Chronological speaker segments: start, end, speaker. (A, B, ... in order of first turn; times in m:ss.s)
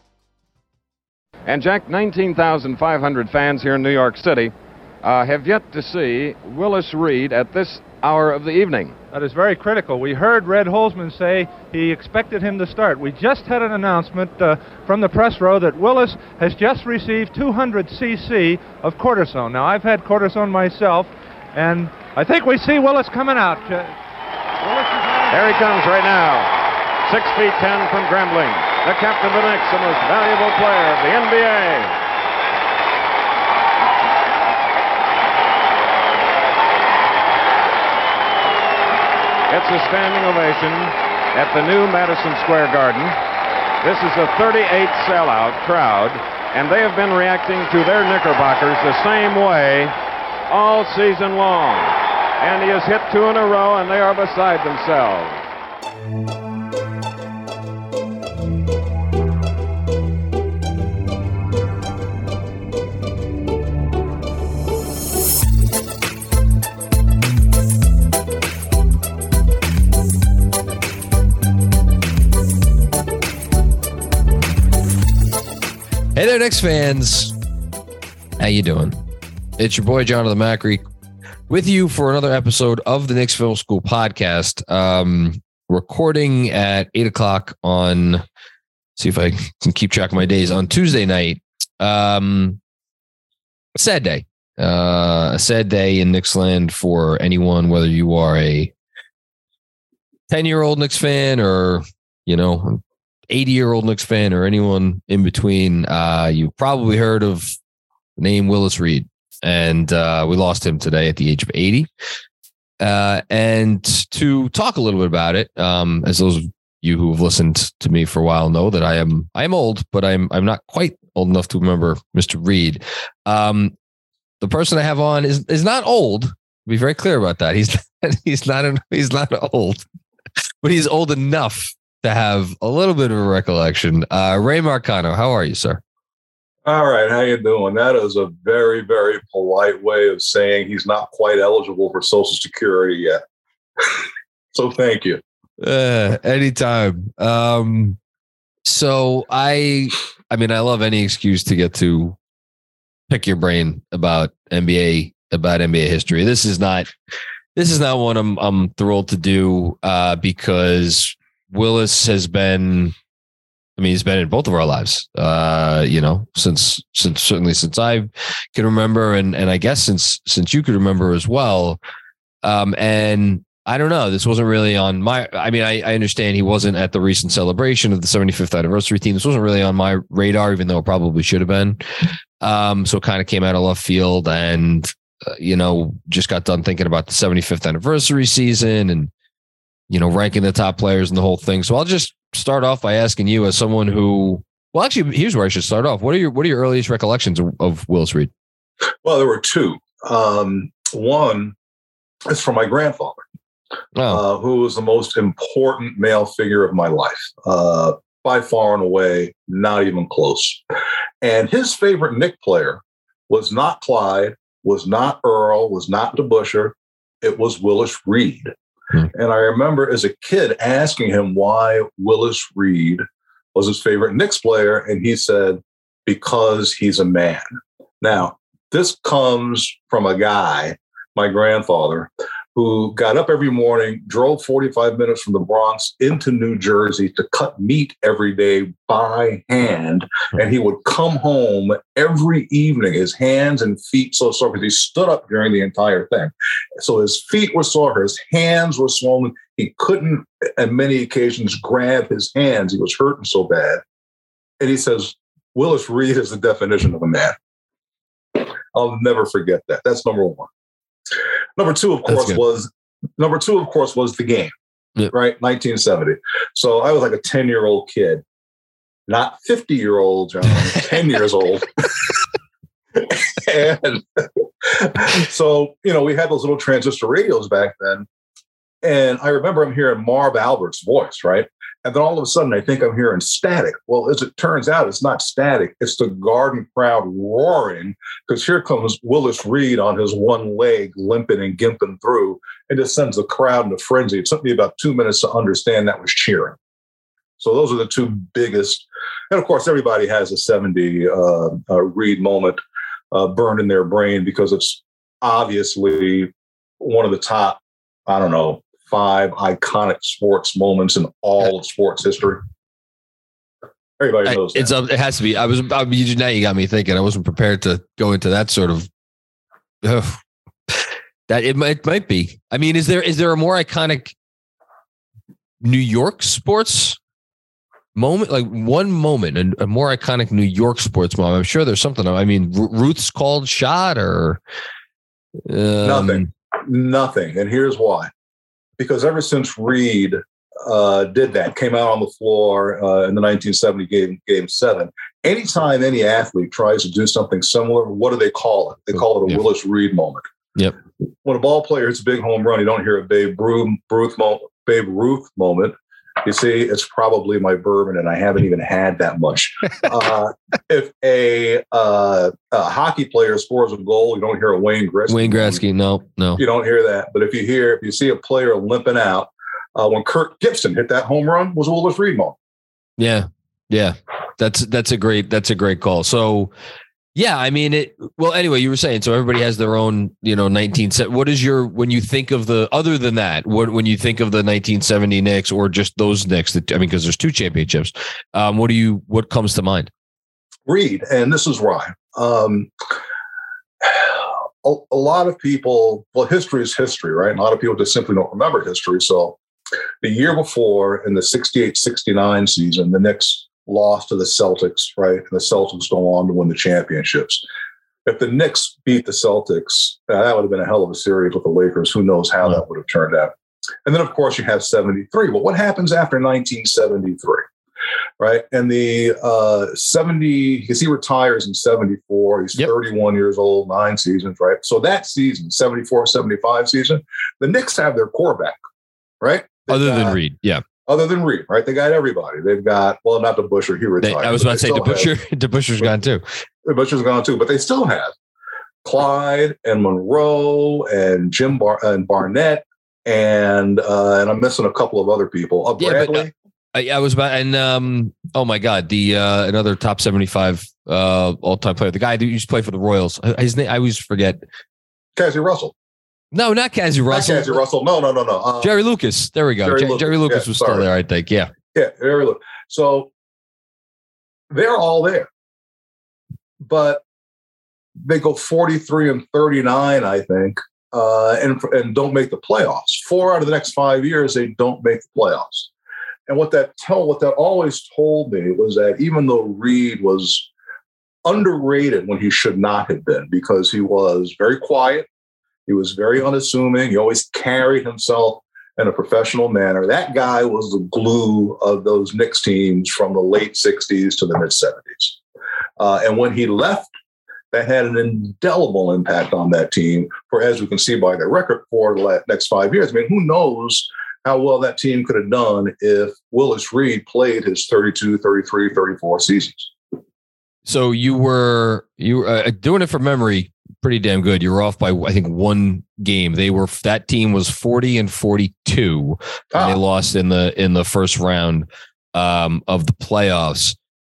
0:01.4-0:09.0 A
0:09.1-0:23.9 B
0:24.6-0:25.3 B
0:25.3-0:26.5 A
0:27.0-0:32.0 A
0:39.5-0:43.1 A
0:43.8-0:49.9 A
0:50.5-0:55.4 A
1:16.1-1:17.3 C
1:18.4-1:19.0 C
1:19.6-1:20.8 C
1:21.5-1:28.2 C
1:29.0-1:32.6 C
1:33.8-1:38.7 C
1:40.3-1:47.5 C
1:48.2-1:51.9 C
1:52.8-2:03.7 C
2:04.4-2:09.8 C
2:10.6-2:15.8 C
2:16.6-2:23.2 D
2:24.5-2:25.2 D
2:25.6-2:28.0 C
2:28.6-2:32.2 C
2:33.1-2:36.9 C
2:37.6-2:42.9 C
2:43.8-2:51.8 C
2:52.4-3:01.8 C
3:02.4-3:09.1 C
3:09.9-3:18.3 C
3:19.0-3:21.5 D
3:22.3-3:23.2 D
3:23.9-3:24.2 C
3:24.1-3:30.6 D
3:31.2-3:38.5 D
3:39.1-3:43.0 D
3:43.5-3:47.4 D
3:48.0-4:13.8 D
4:14.6-4:17.4 D
4:18.3-4:20.5 D
4:21.6-4:24.5 D
4:22.1-4:22.4 C
4:25.1-4:28.2 D
4:29.1-4:32.2 D
4:32.9-4:38.1 D
4:38.8-4:56.6 D
4:57.4-5:02.6 D
5:03.1-5:12.4 D
5:14.0-5:14.7 D
5:14.2-5:18.9 C
5:19.8-5:24.1 C
5:25.6-5:27.0 C
5:27.9-5:34.4 C
5:35.5-5:36.3 C
5:35.8-5:38.1 D
5:38.8-5:50.2 D
5:51.2-6:05.6 D
6:05.1-6:06.4 C
6:06.4-6:12.4 D
6:13.0-6:16.5 C
6:17.1-6:29.9 C
6:30.7-6:32.7 D
6:33.8-6:39.4 D
6:40.0-6:47.4 D
6:48.0-6:53.3 D
6:53.8-6:57.4 D
6:58.2-7:08.6 D
7:09.2-7:10.2 D
7:09.7-7:10.6 C
7:10.8-7:15.1 D
7:14.0-7:16.2 C
7:16.6-7:18.1 D
7:18.8-7:26.3 D
7:25.8-7:34.4 C
7:35.2-7:35.7 D
7:36.3-7:37.6 C
7:37.1-7:38.7 D
7:38.6-7:41.5 C
7:39.6-7:40.8 D
7:41.7-7:43.1 D
7:44.5-7:45.3 D
7:46.6-7:47.0 D
7:48.0-7:55.7 D
7:56.3-8:00.5 D
8:01.2-8:05.1 D
8:05.7-8:15.2 D
8:15.8-8:16.9 D
8:17.5-8:29.7 D
8:30.6-8:43.8 C
8:39.5-8:39.8 D